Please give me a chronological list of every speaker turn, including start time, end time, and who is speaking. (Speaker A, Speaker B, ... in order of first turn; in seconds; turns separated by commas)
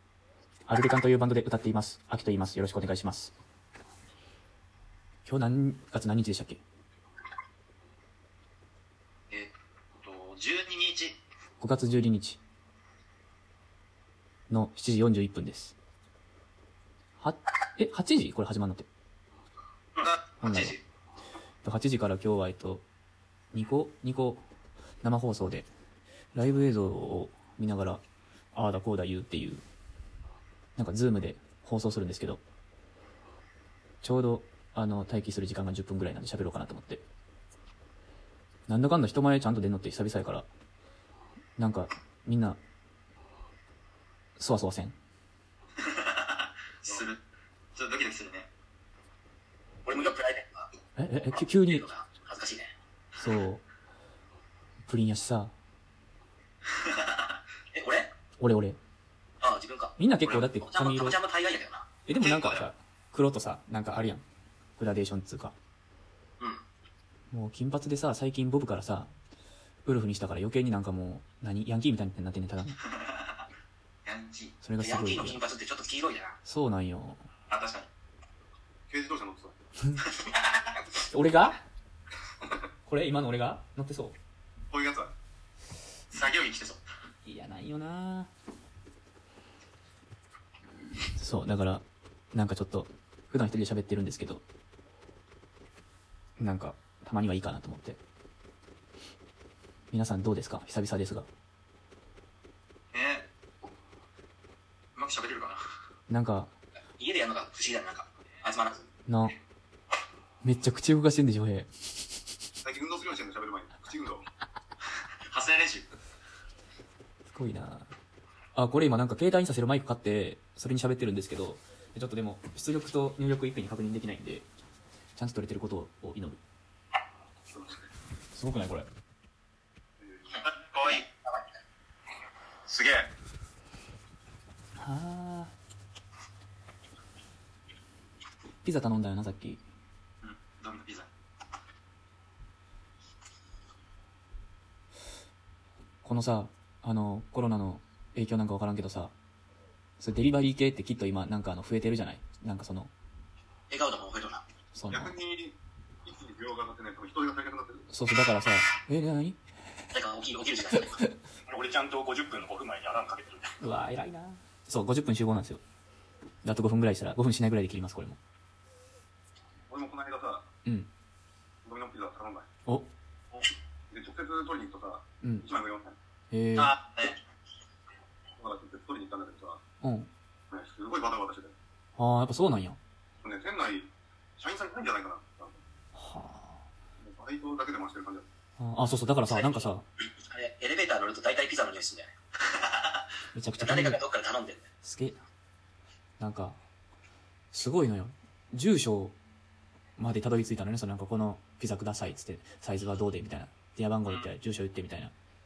Speaker A: 0.7-3.3, Speaker A: 5.2-6.6, Speaker B: 10.0-11.2, Speaker A: 11.6-12.4, Speaker A: 14.5-15.7, Speaker A: 17.2-18.9, Speaker A: 20.4-20.8, Speaker A: 21.6-22.8, Speaker A: 23.5-24.4, Speaker A: 25.0-25.7, Speaker A: 26.3-28.0, Speaker A: 28.5-29.6, Speaker A: 30.8-32.4, Speaker A: 34.0-37.0, Speaker A: 38.7-40.5, Speaker A: 41.6-42.6, Speaker A: 44.4-45.0, Speaker B: 45.8-47.2, Speaker B: 47.7-48.5, Speaker C: 49.8-50.7, Speaker A: 51.0-51.8, Speaker C: 51.4-52.7, Speaker A: 53.1-53.6, Speaker A: 54.9-55.5, Speaker B: 56.6-57.4, Speaker C: 57.7-58.1, Speaker A: 58.4-58.8, Speaker C: 59.4-61.9, Speaker A: 60.0-61.2, Speaker A: 62.1-64.2, Speaker B: 62.2-62.6, Speaker A: 64.8-65.5, Speaker A: 67.3-69.1, Speaker A: 69.8-72.8, Speaker B: 72.8-73.4, Speaker B: 74.0-74.5, Speaker A: 74.6-75.4, Speaker C: 74.8-76.3, Speaker A: 76.5-77.3, Speaker B: 77.5-77.9, Speaker D: 78.9-79.5, Speaker A: 81.0-81.6, Speaker A: 82.8-84.2, Speaker D: 84.7-85.1, Speaker B: 86.1-86.8, Speaker A: 87.2-88.3, Speaker A: 91.1-91.8, Speaker A: 92.3-94.4, Speaker A: 96.4-98.0, Speaker A: 99.9-101.3, Speaker B: 102.9-103.3, Speaker B: 105.0-105.6, Speaker A: 106.1-106.5, Speaker C: 107.0-108.9, Speaker A: 109.1-109.3, Speaker A: 110.4-111.7, Speaker D: 112.6-114.2, Speaker B: 115.3-115.9, Speaker A: 117.3-117.9, Speaker A: 118.5-124.5, Speaker A: 125.2-126.4, Speaker D: 127.5-127.8, Speaker A: 128.3-128.9, Speaker D: 130.0-130.4, Speaker B: 130.4-131.1, Speaker C: 130.9-131.4, Speaker B: 132.7-133.1, Speaker A: 134.8-135.5, Speaker A: 138.6-139.6, Speaker B: 140.2-141.1, Speaker A: 146.0-149.1, Speaker A: 150.0-152.9, Speaker C: 153.7-154.4, Speaker A: 154.7-155.1, Speaker D: 154.9-157.8, Speaker A: 157.9-159.4, Speaker C: 159.9-161.0, Speaker D: 161.5-163.5, Speaker A: 163.6-165.6, Speaker A: 166.4-168.2, Speaker D: 169.7-170.4, Speaker D: 171.6-172.5, Speaker D: 173.3-175.9, Speaker A: 176.3-176.8, Speaker B: 176.7-177.2, Speaker D: 178.4-179.6, Speaker A: 179.8-180.1, Speaker D: 180.5-181.5, Speaker A: 182.0-182.8, Speaker D: 183.2-185.5, Speaker A: 185.9-186.6, Speaker D: 187.0-188.3, Speaker A: 188.6-189.8, Speaker C: 189.3-189.6, Speaker C: 190.3-192.1, Speaker B: 192.5-192.8, Speaker A: 193.3-194.0, Speaker C: 193.6-194.6, Speaker A: 194.8-195.2, Speaker A: 196.2-196.6, Speaker A: 197.5-199.2, Speaker A: 200.0-205.1